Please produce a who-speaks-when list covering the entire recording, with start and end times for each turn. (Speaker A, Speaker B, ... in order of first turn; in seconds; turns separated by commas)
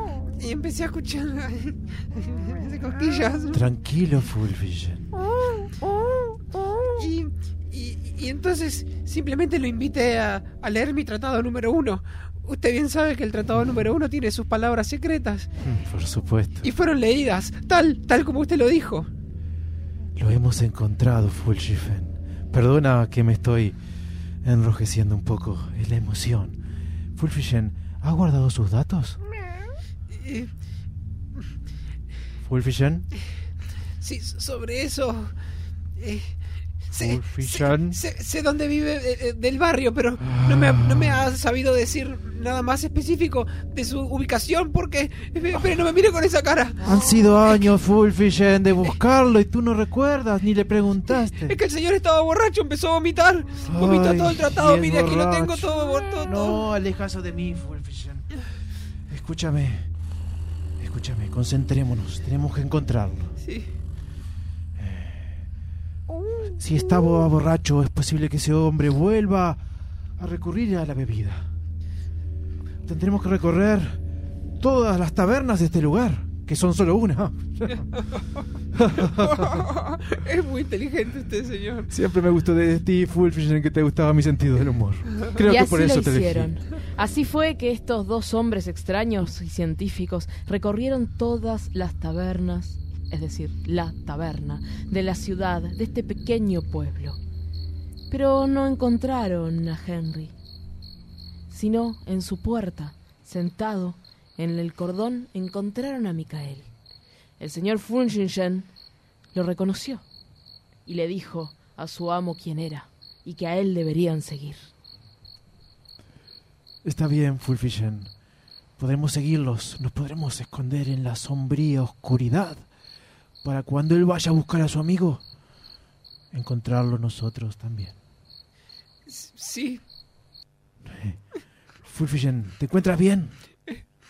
Speaker A: 0.4-3.7, Speaker B: 3.5-5.1, Speaker A: 7.0-15.5, Speaker B: 15.6-16.7, Speaker A: 16.6-19.1, Speaker B: 20.2-23.8, Speaker B: 24.4-26.6, Speaker B: 27.2-29.2, Speaker A: 30.1-30.5, Speaker B: 32.4-33.1, Speaker A: 34.0-35.3, Speaker A: 36.0-36.3, Speaker A: 36.9-47.7, Speaker B: 37.0-38.0, Speaker B: 40.2-41.2, Speaker B: 46.8-51.6, Speaker A: 51.1-56.7, Speaker B: 53.7-58.2, Speaker B: 59.1-59.9, Speaker B: 60.8-63.3, Speaker A: 63.4-63.7, Speaker B: 64.8-65.4, Speaker A: 66.2-67.3, Speaker B: 66.6-69.6, Speaker B: 70.2-71.4, Speaker B: 72.9-74.0, Speaker B: 74.6-77.8, Speaker B: 78.8-79.3, Speaker A: 79.0-81.9, Speaker B: 81.9-86.5, Speaker C: 85.4-97.2, Speaker C: 98.1-100.3, Speaker C: 101.5-106.7, Speaker C: 107.4-108.7, Speaker C: 109.3-110.0, Speaker C: 110.9-114.6, Speaker B: 116.8-118.1, Speaker B: 118.8-122.6, Speaker B: 123.4-125.2, Speaker B: 126.3-128.0, Speaker A: 129.1-129.8, Speaker B: 130.9-131.2, Speaker B: 131.9-133.3